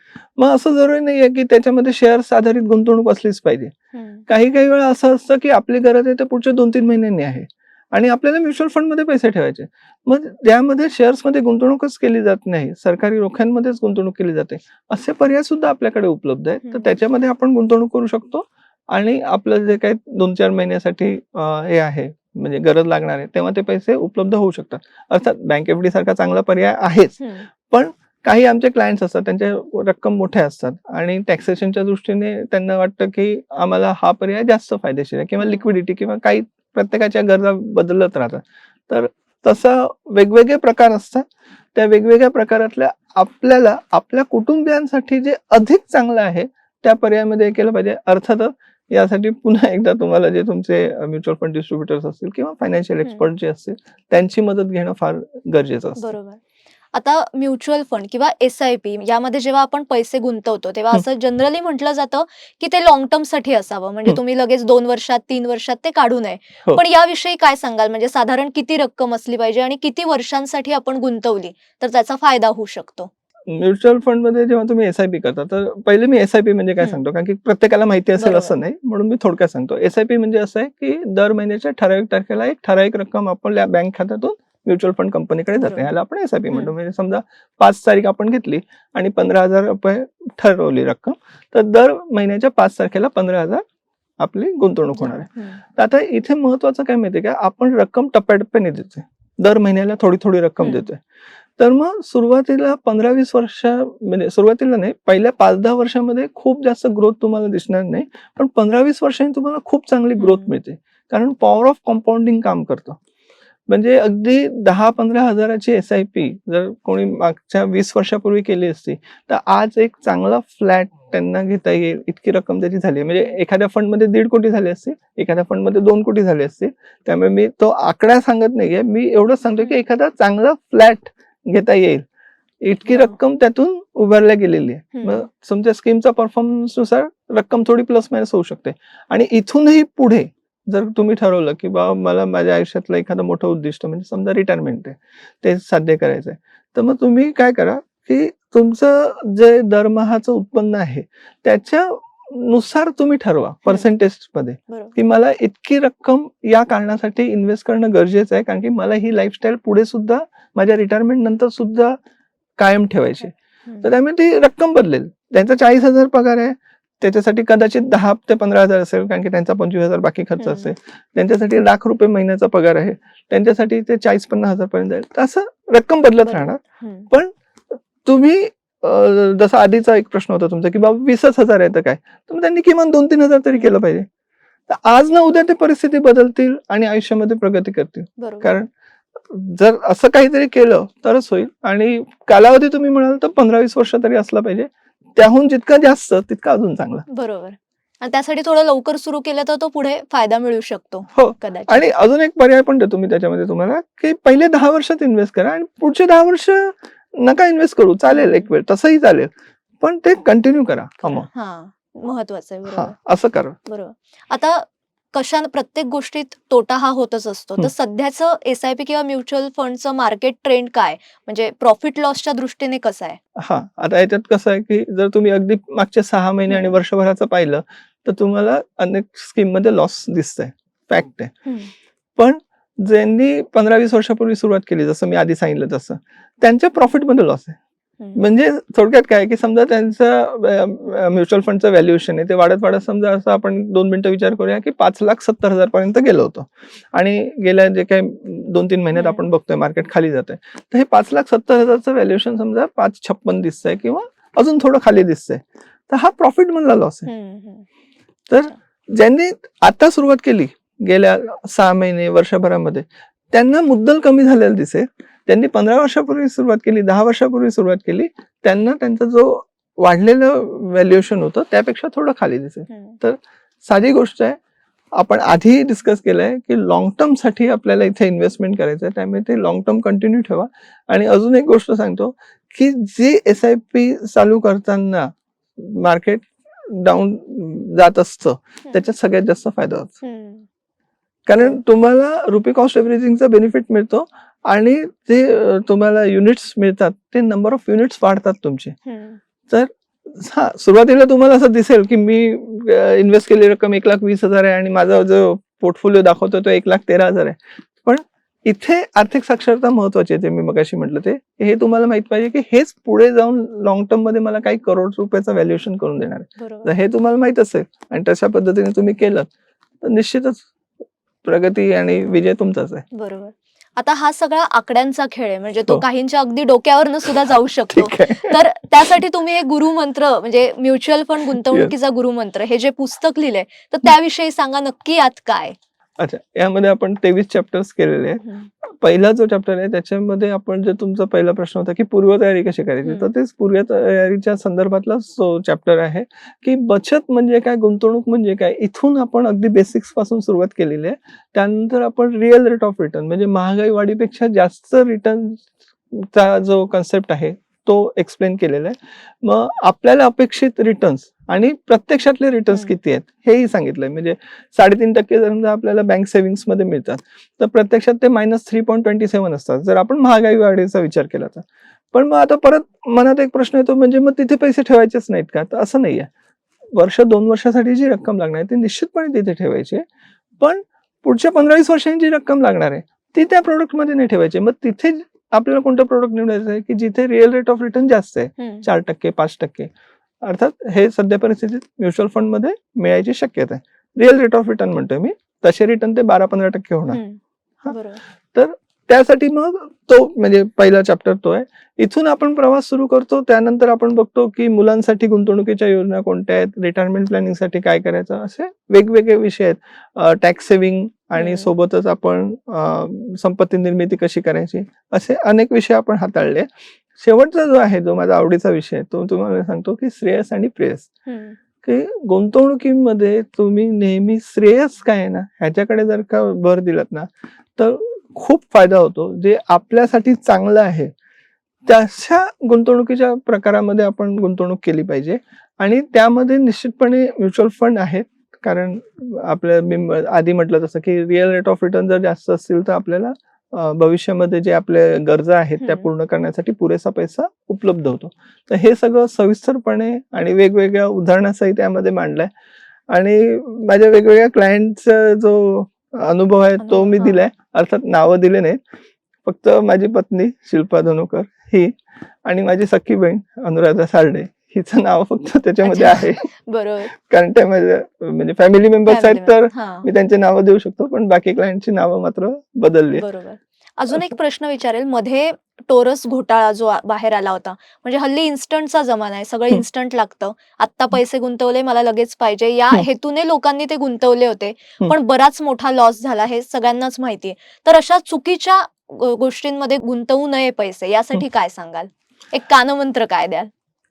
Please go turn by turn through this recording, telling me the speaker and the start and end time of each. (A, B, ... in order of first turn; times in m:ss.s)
0:00.4-0:03.7 A
0:03.9-0:04.2 B
0:04.3-0:56.1 A
0:16.6-0:17.0 B
0:27.2-0:27.5 B
0:53.0-0:53.3 B
0:56.0-0:56.4 B
0:56.9-1:13.1 B
1:13.5-1:33.6 A
1:18.2-1:18.6 B
1:25.5-1:25.9 B
1:26.5-1:26.7 B
1:34.2-1:41.0 A
1:35.0-1:35.6 B
1:40.6-1:40.9 B
1:41.6-1:53.0 A
1:50.2-1:50.5 B
1:53.7-2:12.0 A
2:12.6-2:42.0 A
2:12.8-2:13.2 B
2:14.9-2:15.2 B
2:34.7-2:35.0 B
2:42.6-2:57.3 A
2:50.4-2:50.7 B
2:56.2-2:57.1 B
2:58.0-3:04.0 A
3:04.7-3:08.7 A
3:08.2-3:08.6 B
3:09.3-3:17.1 A
3:17.1-3:21.8 B
3:21.1-3:31.3 A
3:28.1-3:28.5 B
3:31.0-3:32.9 B
3:32.7-3:33.6 A
3:33.6-3:43.2 B
3:43.4-3:51.3 A
3:46.5-3:46.8 B
3:51.4-3:51.7 B
3:52.2-3:57.6 A
3:58.2-4:17.1 A
4:08.9-4:09.2 B
4:17.1-4:17.6 B
4:18.3-4:34.4 A
4:32.7-4:33.0 B
4:35.0-4:49.9 A
4:50.0-4:50.4 B
4:51.2-4:58.7 A
4:58.8-4:59.2 B
4:59.5-5:19.3 A
5:16.4-5:16.7 B
5:19.8-5:20.5 A
5:21.2-5:22.8 A
5:22.9-5:35.5 B
5:27.7-5:28.4 A
5:31.3-5:31.7 A
5:36.0-6:16.1 A
5:38.2-5:38.5 B
5:42.8-5:43.1 B
6:16.7-6:19.8 A
6:20.4-6:29.7 A
6:28.4-6:28.7 B
6:30.2-6:37.0 A
6:36.9-6:38.0 B
6:38.3-7:00.9 A
6:51.2-6:51.5 B
7:01.0-7:01.4 B
7:01.6-7:10.9 A
7:11.6-7:32.3 A
7:25.6-7:25.9 B
7:32.9-7:38.6 A
7:36.6-7:37.2 B
7:39.2-7:46.3 A
7:45.6-7:46.9 B
7:46.9-7:53.0 A
7:48.8-7:49.9 B
7:52.9-8:13.5 B